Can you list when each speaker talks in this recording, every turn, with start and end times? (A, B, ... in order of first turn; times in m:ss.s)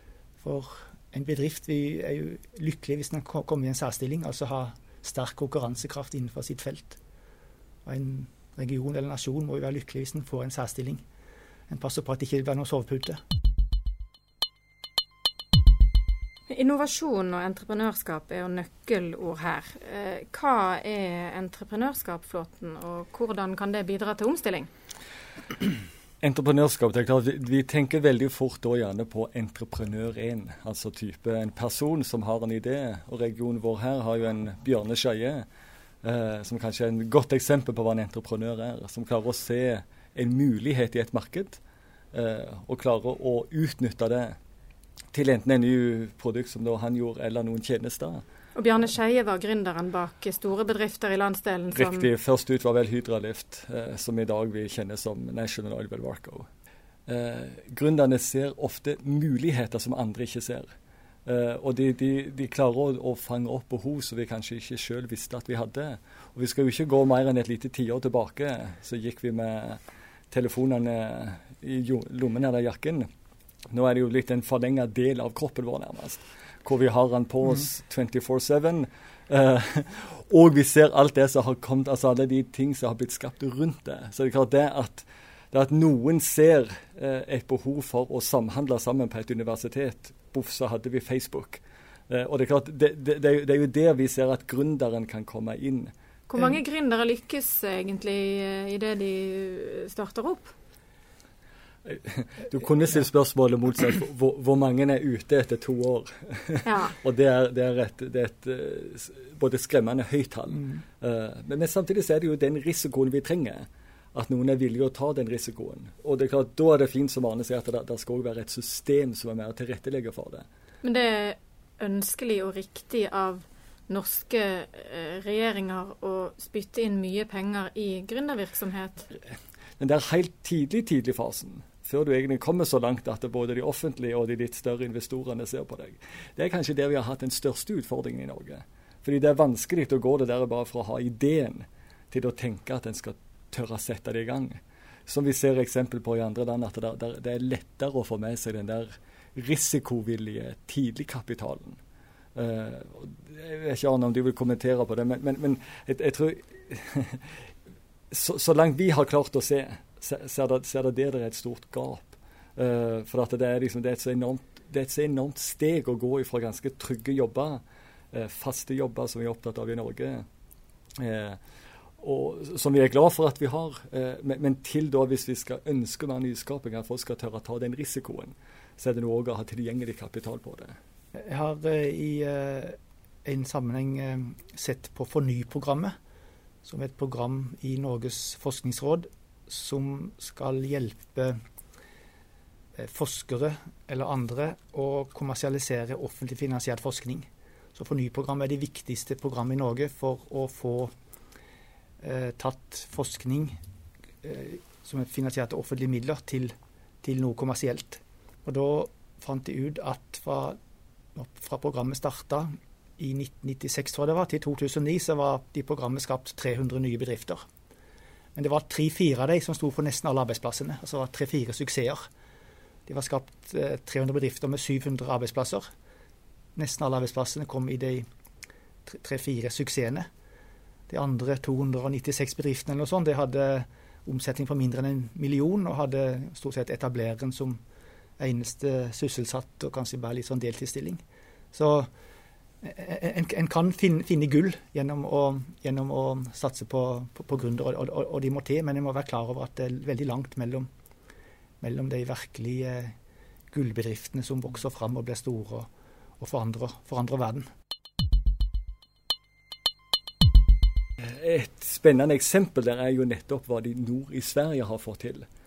0:00.4-0:07.0 A
0:07.9-0:11.0 A
0:11.7-0:13.2 A
0:16.5-0:24.7 B
0:26.2-0:35.5 C
0:36.0-0:41.6 C
0:42.1-0:44.4 C
0:45.1-0:48.2 C
0:48.6-0:52.1 B
0:51.7-0:56.5 C
0:57.1-1:00.7 C
1:01.3-1:09.8 C
1:10.3-1:13.1 C
1:13.7-1:35.9 C
1:36.3-1:40.5 B
1:41.8-2:00.5 C
1:46.6-1:47.0 B
2:00.8-2:09.1 B
2:09.8-2:31.8 C
2:32.4-2:37.5 C
2:38.1-2:50.3 C
2:51.0-2:51.4 C
2:52.0-3:00.8 C
3:01.2-3:05.9 A
3:06.6-3:11.4 A
3:12.8-3:20.9 A
3:22.0-3:23.6 A
3:24.2-3:30.6 A
3:31.2-3:37.4 A
3:38.4-3:42.1 A
3:42.9-3:45.7 A
3:46.6-3:48.1 A
3:48.9-3:50.1 A
3:50.9-3:57.6 A
3:58.2-4:01.0 A
4:01.5-4:01.9 A
4:02.6-4:10.7 A
4:11.6-4:12.9 A
4:13.5-4:15.7 A
4:16.2-4:17.5 A
4:21.0-4:25.3 C